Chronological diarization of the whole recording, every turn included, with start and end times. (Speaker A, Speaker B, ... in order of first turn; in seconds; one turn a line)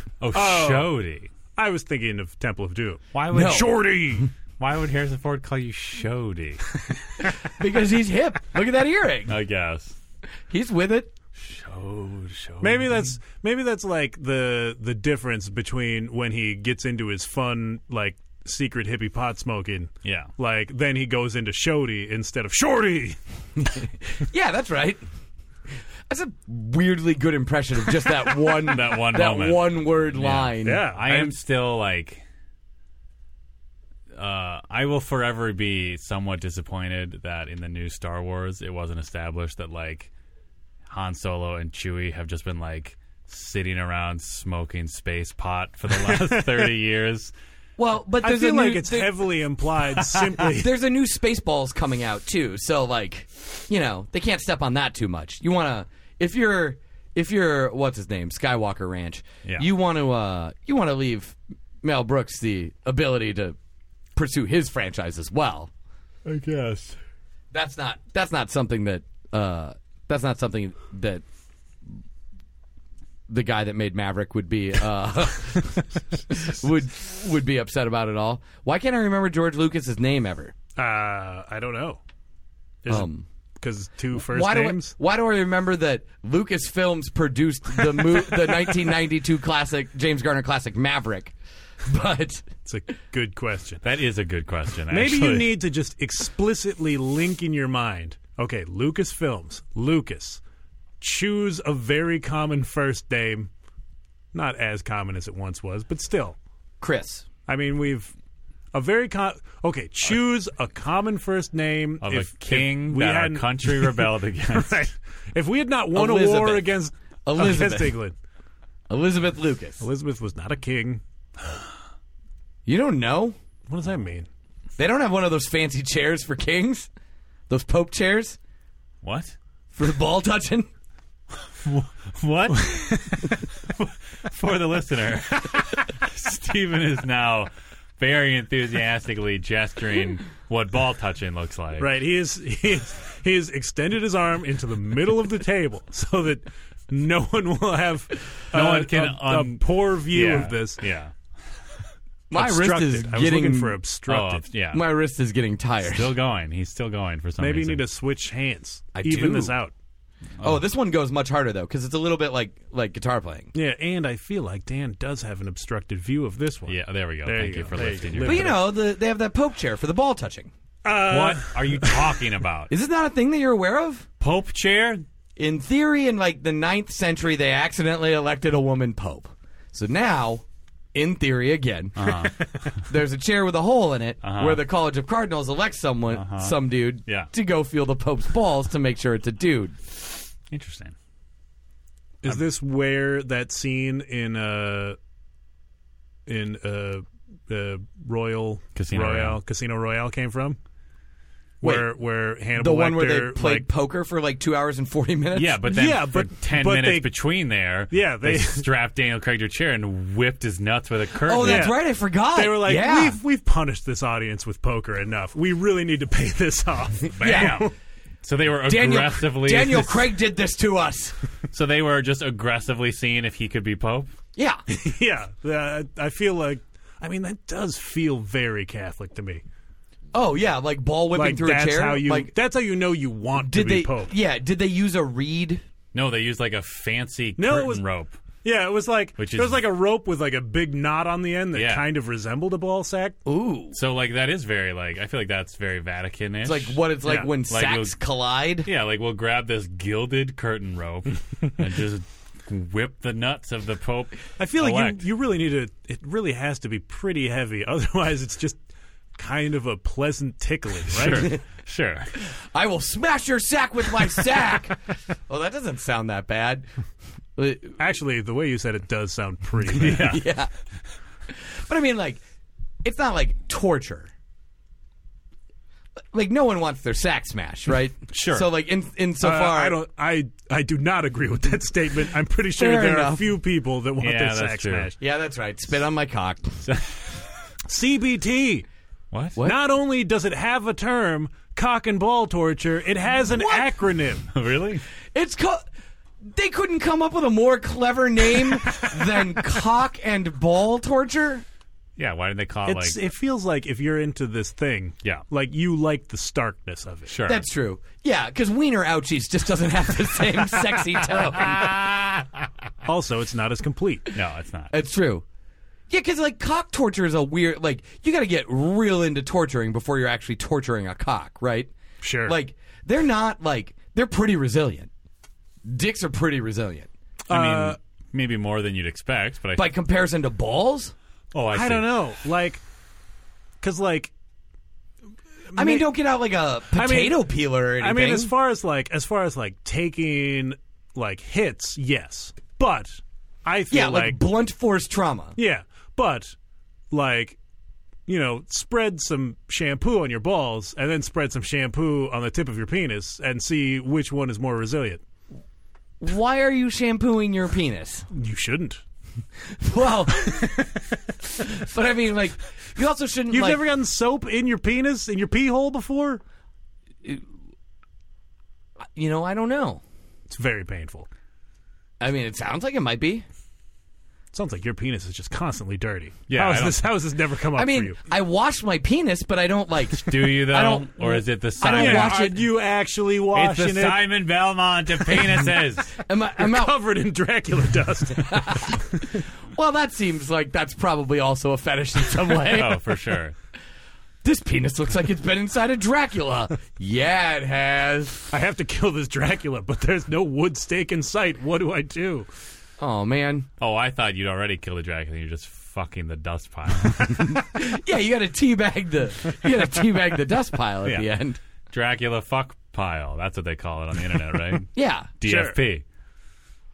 Speaker A: 0.2-1.3
Speaker B: 0.3-0.9
Speaker B: 1.6-4.3
Speaker A: 3.1-3.7
Speaker C: 3.3-4.3
Speaker A: 4.6-6.6
Speaker C: 7.4-9.4
Speaker A: 9.3-10.0
Speaker C: 10.5-11.1
Speaker A: 11.4-13.1
Speaker B: 12.6-23.2
Speaker A: 20.0-20.3
Speaker C: 23.6-25.0
Speaker C: 26.1-30.9
Speaker A: 28.6-32.2
Speaker B: 30.6-31.4
Speaker A: 34.1-40.1
Speaker A: 40.9-47.3
Speaker B: 46.0-46.7
Speaker C: 47.8-49.3
Speaker B: 48.2-50.7
Speaker C: 50.5-63.6
Speaker C: 64.2-65.7
Speaker A: 66.3-67.0
Speaker C: 67.5-71.2
Speaker C: 73.3-80.5
Speaker B: 80.8-82.0
Speaker B: 82.8-84.9
Speaker C: 82.9-83.2
Speaker C: 84.1-92.5
Speaker B: 92.7-93.8
Speaker A: 93.8-95.6
Speaker B: 94.9-100.4
Speaker B: 101.0-103.5
Speaker B: 104.3-106.4
Speaker C: 106.8-107.3
Speaker B: 107.5-108.1
Speaker B: 108.7-118.2
Speaker A: 112.0-114.8
Speaker C: 115.9-118.0
Speaker C: 118.9-119.8
Speaker B: 119.8-121.0
Speaker C: 122.7-123.4
Speaker B: 123.7-124.3
Speaker C: 124.8-126.9
Speaker C: 127.5-128.4
Speaker A: 129.0-129.4
Speaker C: 129.7-130.7
Speaker A: 131.6-141.9
Speaker B: 132.6-133.2
Speaker B: 141.8-150.8
Speaker A: 148.5-151.1
Speaker C: 152.3-153.8
Speaker B: 152.3-154.4
Speaker A: 154.1-154.8
Speaker C: 154.7-156.1
Speaker A: 155.8-157.8
Speaker B: 157.4-159.7
Speaker C: 158.9-159.6
Speaker C: 160.4-163.5
Speaker B: 163.5-168.6
Speaker A: 166.7-168.6
Speaker C: 168.2-170.5
Speaker B: 170.8-172.2
Speaker A: 171.0-172.7
Speaker C: 172.7-174.1
Speaker A: 174.2-175.1
Speaker C: 175.4-182.3
Speaker A: 182.0-182.5
Speaker C: 182.9-189.8
Speaker A: 184.2-184.6
Speaker A: 186.1-187.3
Speaker A: 190.5-190.9
Speaker B: 192.2-195.0
Speaker B: 196.3-200.6
Speaker A: 198.8-199.4
Speaker B: 201.6-203.7
Speaker C: 201.6-201.9
Speaker C: 202.6-205.6
Speaker A: 205.3-211.7
Speaker B: 205.6-207.1
Speaker B: 207.9-208.7
Speaker C: 211.2-213.2
Speaker B: 211.4-217.7
Speaker C: 217.2-217.6
Speaker A: 217.2-217.7
Speaker A: 218.2-220.1
Speaker C: 218.7-221.2
Speaker A: 221.5-224.1
Speaker C: 224.3-224.6
Speaker B: 224.7-229.4
Speaker C: 230.1-232.3
Speaker B: 231.1-234.1
Speaker C: 233.3-235.6
Speaker A: 235.9-238.2
Speaker B: 237.4-237.8
Speaker B: 238.4-243.2
Speaker A: 239.2-239.6
Speaker A: 241.5-241.9
Speaker C: 243.3-243.8
Speaker A: 243.7-246.8
Speaker C: 246.4-248.7
Speaker B: 247.0-247.3
Speaker A: 247.5-248.0
Speaker A: 248.6-255.1
Speaker B: 254.4-258.6
Speaker B: 259.2-261.3
Speaker A: 260.9-262.1
Speaker C: 262.2-266.7
Speaker C: 267.4-267.8
Speaker B: 267.8-270.2
Speaker A: 269.8-270.2
Speaker C: 269.8-270.5
Speaker C: 271.3-272.2
Speaker C: 272.8-274.1
Speaker C: 276.1-279.8
Speaker A: 278.1-278.5
Speaker B: 279.2-285.0
Speaker C: 282.6-283.4
Speaker A: 284.0-284.9
Speaker C: 285.0-286.7
Speaker A: 286.7-287.1
Speaker B: 287.7-288.7
Speaker A: 289.1-289.4
Speaker B: 289.4-294.3
Speaker C: 293.3-293.7
Speaker A: 294.3-294.9
Speaker C: 295.1-295.6
Speaker C: 296.2-301.4
Speaker A: 302.0-303.0
Speaker B: 302.7-307.1
Speaker A: 307.1-307.4
Speaker C: 307.3-311.8
Speaker B: 312.9-314.1
Speaker A: 314.1-314.7
Speaker C: 314.7-315.2
Speaker C: 315.9-321.7
Speaker B: 322.0-322.4
Speaker C: 322.2-324.9
Speaker C: 325.6-326.9
Speaker B: 327.3-327.8
Speaker A: 327.3-329.7
Speaker C: 329.6-330.9
Speaker A: 331.3-332.0
Speaker B: 331.5-332.6
Speaker B: 333.6-334.1
Speaker B: 335.5-335.9
Speaker C: 335.6-338.3
Speaker B: 336.7-344.2
Speaker C: 343.7-345.4
Speaker B: 345.4-346.4
Speaker B: 346.9-347.4
Speaker B: 348.1-355.0
Speaker C: 356.0-358.1
Speaker B: 358.1-358.8
Speaker C: 359.5-363.6
Speaker B: 363.3-366.2
Speaker C: 368.9-369.8
Speaker B: 370.3-371.1
Speaker C: 372.0-373.2
Speaker B: 374.3-378.0
Speaker A: 376.3-376.9
Speaker C: 377.6-382.4
Speaker A: 380.0-382.2
Speaker B: 381.6-384.1
Speaker A: 383.3-385.9
Speaker C: 385.9-386.8
Speaker B: 386.4-389.1
Speaker C: 388.1-393.0
Speaker A: 392.5-393.4
Speaker C: 394.2-398.2
Speaker B: 398.3-402.3
Speaker C: 402.8-403.5
Speaker A: 403.6-407.4
Speaker C: 406.9-411.4
Speaker A: 410.8-411.1
Speaker A: 411.7-414.7
Speaker C: 414.8-415.1
Speaker A: 415.2-415.8
Speaker B: 415.2-415.6